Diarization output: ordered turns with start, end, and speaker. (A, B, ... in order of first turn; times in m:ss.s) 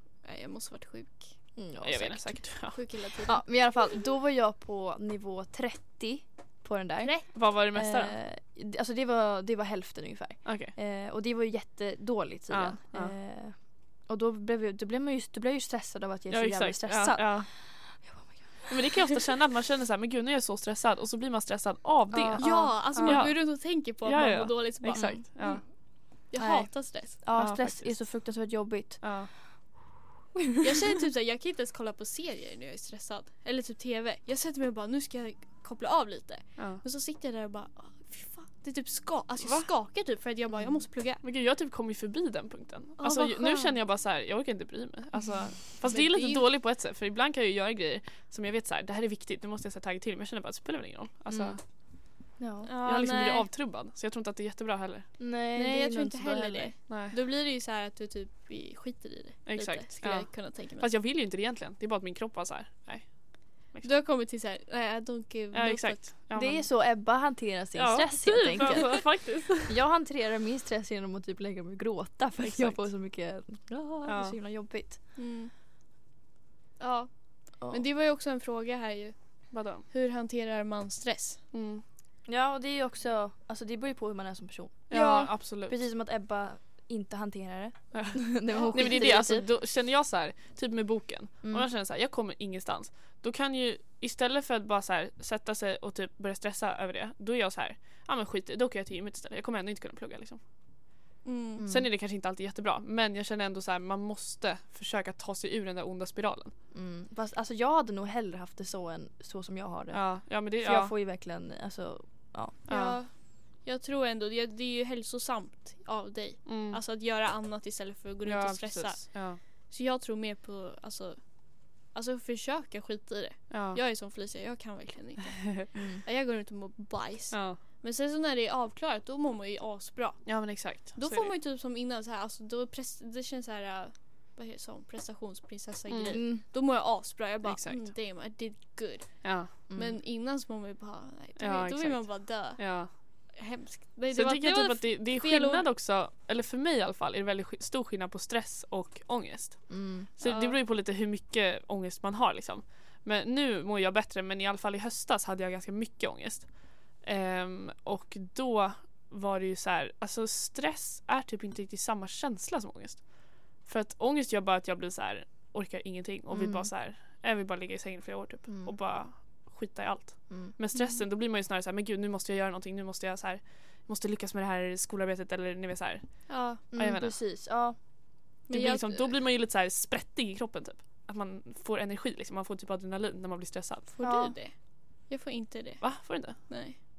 0:00.2-0:01.3 A
0:01.6-0:02.4 B
0:01.8-0:02.8 C
0:02.7-0:03.4 A
0:03.2-0:19.0 B
0:07.0-0:07.2 A
0:07.3-0:08.2 C
0:10.4-0:10.7 C
0:12.5-0:13.1 C
0:16.3-0:17.5 C
0:18.7-0:25.6 C
0:22.1-0:23.3 B
0:22.4-0:25.6 A
0:24.9-0:25.2 B
0:26.2-0:27.2 A
0:26.4-0:29.0 B
0:27.4-0:28.0 C
0:29.0-0:29.3 C
0:30.6-0:41.2 A
0:39.4-0:39.7 C
0:41.2-0:51.6 C
0:43.0-0:43.8 A
0:45.9-0:46.4 A
0:51.3-0:51.6 B
0:52.4-0:52.7 B
0:52.6-0:53.5 A
0:52.8-0:55.1 C
0:55.2-0:56.7 B
0:55.5-1:00.9 A
0:56.9-0:57.1 C
0:59.4-1:03.9 C
1:03.8-1:06.0 A
1:05.5-1:06.7 C
1:06.3-1:15.0 B
1:07.7-1:09.8 C
1:08.6-1:09.0 A
1:12.4-1:12.8 C
1:14.0-1:14.4 C
1:15.2-1:15.5 A
1:16.8-1:19.2 A
1:19.5-1:19.8 C
1:19.9-1:21.4 A
1:21.5-1:21.8 C
1:22.3-1:25.0 B
1:24.9-1:25.8 C
1:24.9-1:25.3 A
1:25.5-1:29.5 B
1:27.9-1:40.4 C
1:28.5-1:28.9 A
1:31.4-1:31.7 B
1:41.2-1:41.6 A
1:41.6-1:41.9 B
1:41.7-1:46.5 C
1:46.7-1:52.6 B
1:49.9-1:50.9 C
1:52.7-1:53.0 C
1:52.7-1:59.1 A
1:56.4-1:56.8 C
1:58.2-1:59.4 C
1:59.7-2:01.2 A
2:01.9-2:10.3 A
2:03.5-2:03.8 C
2:05.7-2:06.0 B
2:07.3-2:07.6 C
2:10.2-2:11.3 C
2:11.0-2:22.6 A
2:15.9-2:16.2 C
2:16.1-2:16.4 B
2:17.4-2:17.9 C
2:19.2-2:19.5 C
2:19.7-2:20.0 B
2:21.4-2:22.9 C
2:23.3-2:25.6 A
2:24.1-2:57.2 C
2:29.7-2:30.1 B
2:30.2-2:30.6 A
2:46.3-2:46.7 B
2:48.5-2:48.7 B
2:50.3-2:50.5 B
2:50.7-2:51.0 A
2:56.3-2:56.6 A
2:56.7-2:57.8 B
2:58.5-2:59.1 A
2:58.5-3:03.9 C
3:03.9-3:06.8 A
3:04.0-3:04.3 B
3:05.8-3:06.4 C